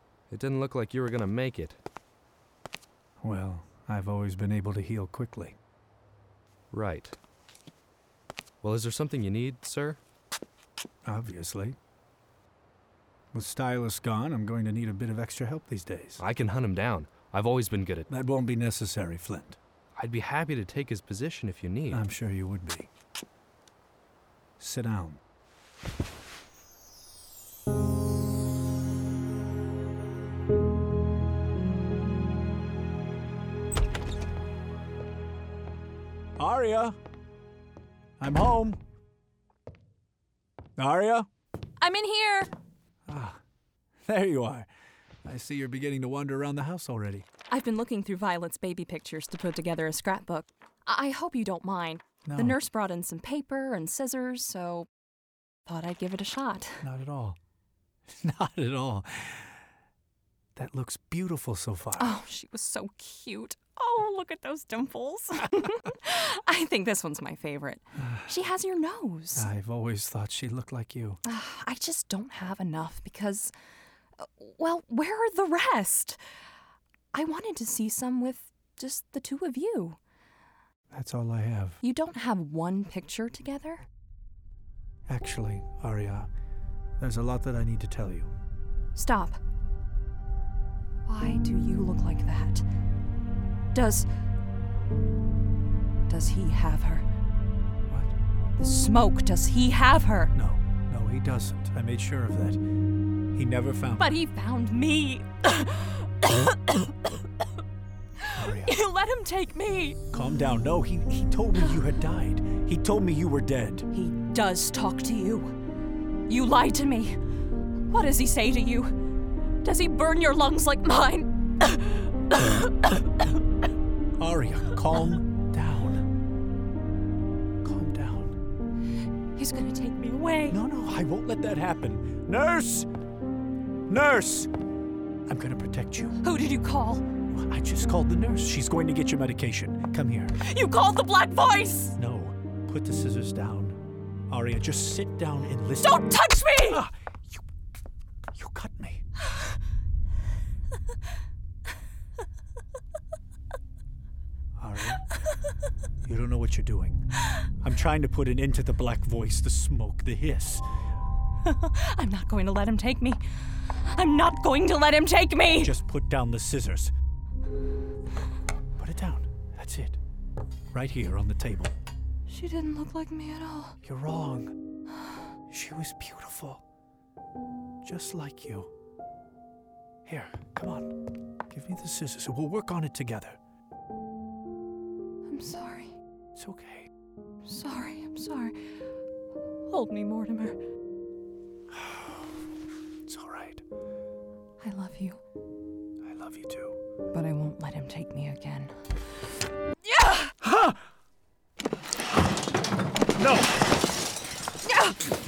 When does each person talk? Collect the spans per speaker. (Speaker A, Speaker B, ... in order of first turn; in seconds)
Speaker A: 0.3-1.8, 6.7-7.2, 8.6-10.0, 16.2-18.1, 19.9-22.0
Speaker B: 3.2-5.6, 11.1-11.8, 13.3-16.2, 18.1-19.6, 21.9-22.9, 24.6-25.2, 36.4-37.0, 38.2-38.8, 40.8-41.3, 43.1-43.4, 44.0-44.7, 45.2-47.2, 52.2-52.6, 56.8-57.4, 58.1-59.6, 60.5-62.1, 68.0-68.3, 69.3-71.2, 80.9-81.8, 85.1-86.3, 87.0-88.3, 97.9-98.1, 100.3-102.6, 103.3-104.2, 108.3-108.8, 110.1-113.9, 124.2-126.0, 127.6-128.3, 130.5-132.9, 133.9-134.5, 135.3-136.2, 137.3-140.3, 142.0-146.0, 146.6-147.4, 148.3-149.0, 154.6-155.0, 156.0-157.0, 157.6-160.7, 165.6-166.9, 168.8-170.0, 170.7-171.7, 173.8-174.5, 175.5-176.6, 177.8-178.7, 180.1-180.9, 181.5-183.4, 186.3-186.9, 191.7-192.3, 193.1-193.6, 196.0-196.8, 200.4-200.8, 203.2-203.5
Speaker C: 41.8-42.5, 47.5-54.9, 55.6-56.8, 62.0-69.5, 71.2-73.5, 74.2-76.2, 77.1-80.0, 81.8-83.8, 88.9-89.4, 91.0-92.6, 93.7-94.1, 96.1-97.0, 98.6-100.3, 104.0-106.9, 108.4-110.0, 113.9-115.5, 116.3-117.2, 117.9-118.9, 119.6-122.7, 129.3-130.6, 136.2-137.1, 140.4-141.9, 145.8-146.8, 161.4-163.2, 163.9-165.7, 172.3-173.8, 185.3-185.9, 187.4-188.5, 189.7-190.6, 194.6-195.2, 197.1-198.7, 199.8-200.3, 204.7-205.0